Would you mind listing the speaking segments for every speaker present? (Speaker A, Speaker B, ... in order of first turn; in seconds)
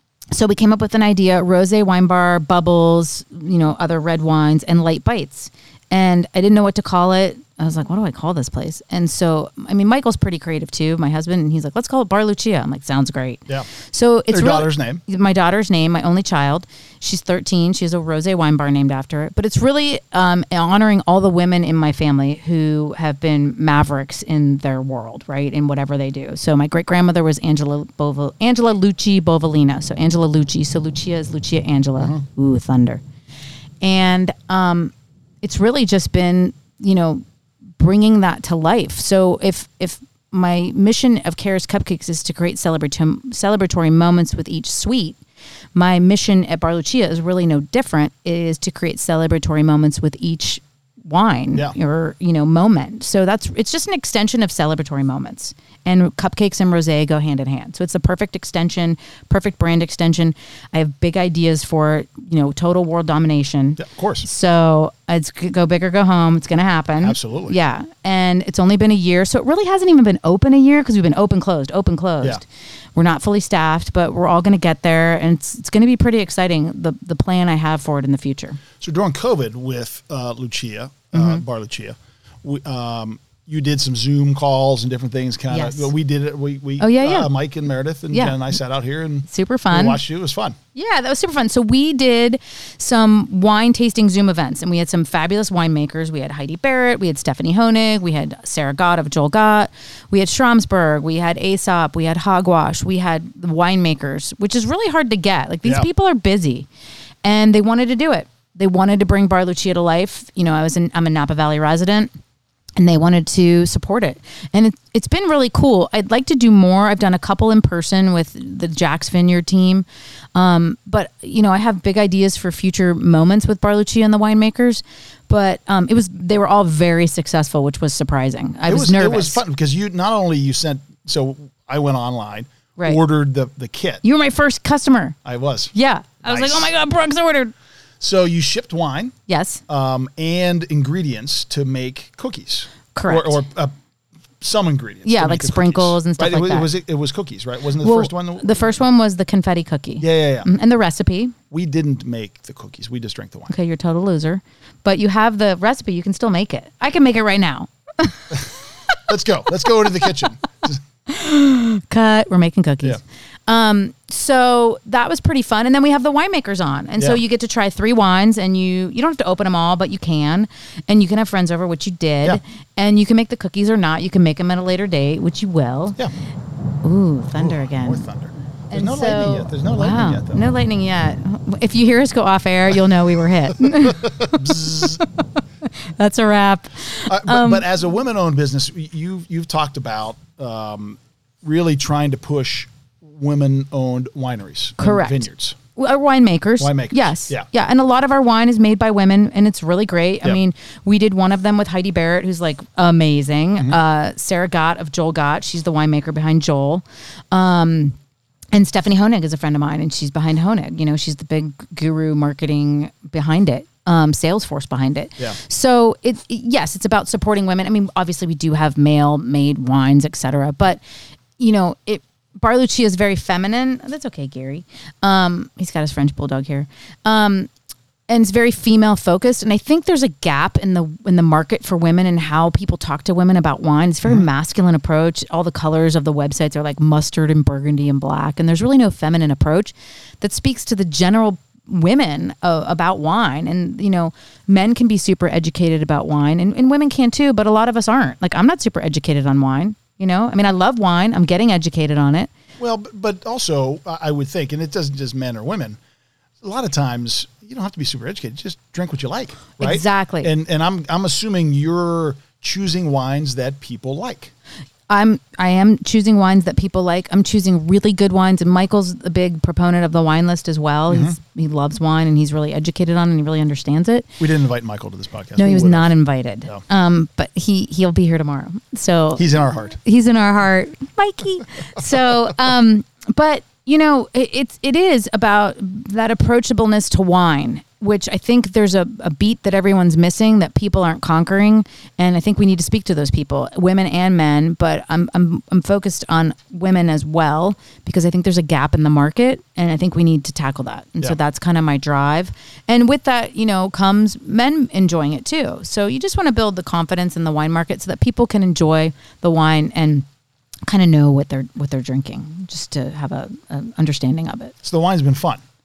Speaker A: 0.3-33.0, 33.8-37.2, 37.8-45.2, 45.7-78.6, 81.1-81.4, 85.5-85.9, 86.8-87.3, 88.1-88.4, 89.3-90.0, 90.7-106.7, 107.2-112.1, 112.8-129.4, 134.0-135.2, 135.7-137.5, 139.3-139.6, 142.9-143.4, 145.1-146.7, 147.8-151.3, 153.5-159.0, 161.1-176.0, 176.8-178.1, 178.7-185.1, 185.7-187.7, 194.8-207.9, 208.5-220.8, 221.4-227.5, 228.1-252.3, 259.6-260.3, 264.9-274.1, 275.4-310.1, 310.7-314.5
Speaker B: 14.3-15.0, 63.8-64.3, 67.0-67.6, 78.8-90.6, 128.7-134.0, 135.2-135.7, 136.2-136.7, 138.0-139.1, 139.7-143.7, 144.4-148.8, 150.0-150.5, 151.5-153.5, 159.1-160.8, 177.4-180.4, 183.7-185.0, 187.1-195.6, 196.6-197.5, 252.6-255.8, 256.4-264.3, 270.9-271.2, 274.2-275.9, 279.1-279.8, 314.6-315.4